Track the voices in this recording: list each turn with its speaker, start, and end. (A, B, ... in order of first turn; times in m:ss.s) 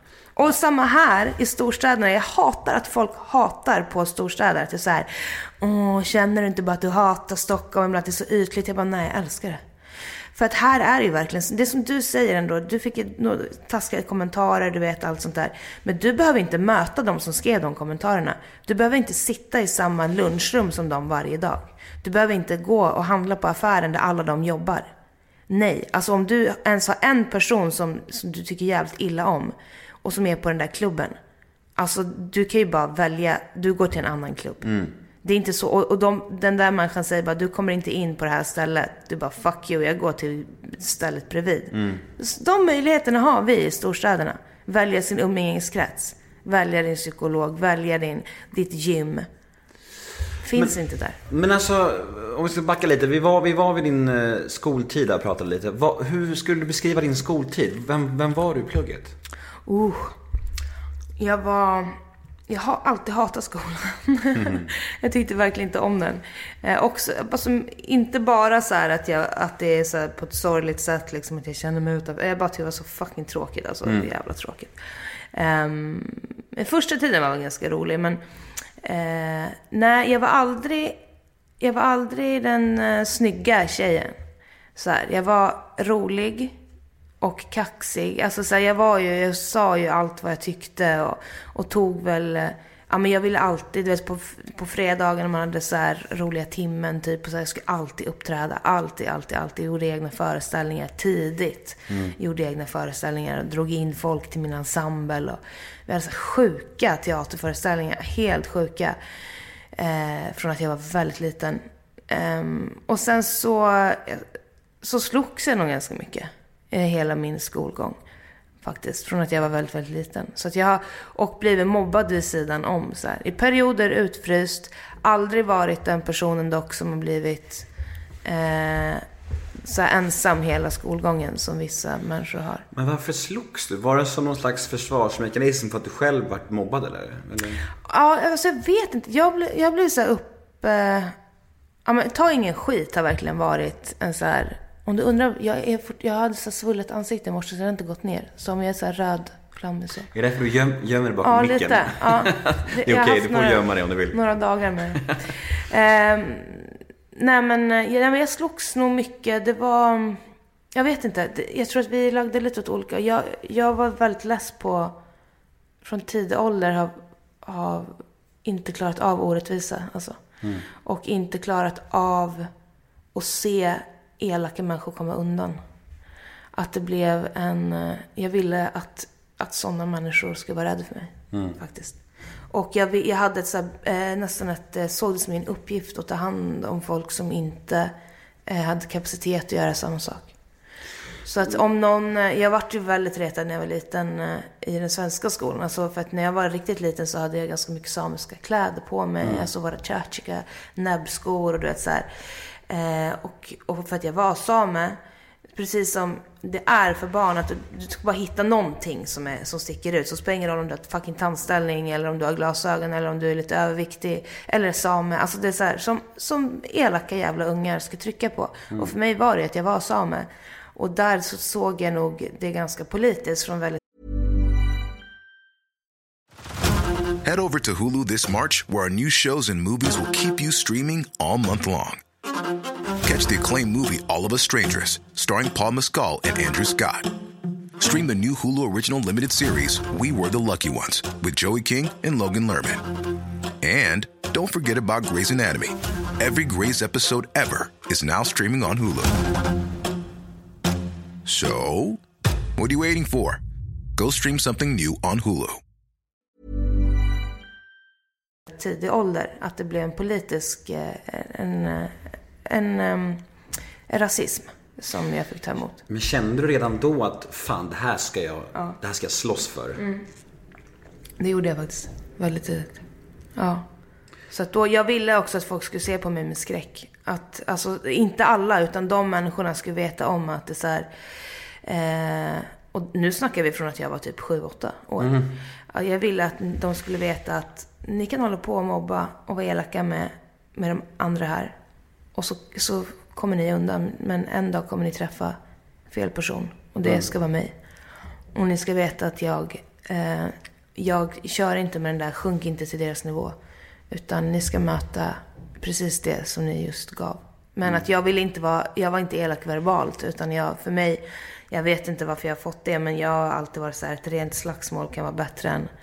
0:00.4-0:09.6 A
0:10.4-0:24.9 A
0:25.5-0:31.2 A
0:31.8-0:34.7 A
0:34.6-0:35.0 B
0:35.2-0:49.3 A
0:41.7-0:42.0 B
0:50.4-0:51.2 A
0:51.3-0:59.2 B
0:59.7-1:00.2 A
1:01.2-1:02.0 A
1:02.5-1:14.8 A
1:04.4-1:04.7 B
1:15.3-1:18.2 A
1:18.8-1:21.0 A
1:21.6-1:24.2 A
1:24.8-1:26.6 A
1:27.2-1:49.0 A
1:41.9-1:42.2 B
1:49.8-1:54.3 A
1:54.8-1:58.0 A
1:58.6-2:07.7 A
2:08.2-2:09.0 A
2:09.6-2:12.7 A
2:12.7-2:17.6 B
2:17.8-2:21.2 A
2:21.9-2:30.1 A
2:30.1-2:34.2 B
2:31.2-2:40.2 A
2:40.8-2:45.0 A
2:45.8-2:50.2 A
2:50.8-2:52.5 A
2:53.1-2:55.6 A
2:56.6-3:02.0 A
3:02.5-3:07.9 A
3:08.5-3:10.3 A
3:11.2-3:22.1 A
3:22.7-3:25.0 A
3:25.6-3:43.8 A
3:47.2-3:52.0 C
3:53.0-3:57.1 C
3:57.8-4:02.9 C
4:03.6-4:09.3 C
4:11.2-4:12.0 C
4:12.6-4:13.4 C
4:14.0-4:15.6 C
4:18.5-4:23.2 A
4:23.9-4:25.8 A
4:25.9-4:29.8 B
4:31.2-4:32.8 A
4:33.4-4:33.7 A
4:34.3-4:40.9 A
4:41.6-4:51.6 A
4:45.0-4:45.3 B
4:52.2-4:55.4 A
4:55.9-4:57.5 A
4:58.4-5:03.4 A
5:03.9-5:15.7 A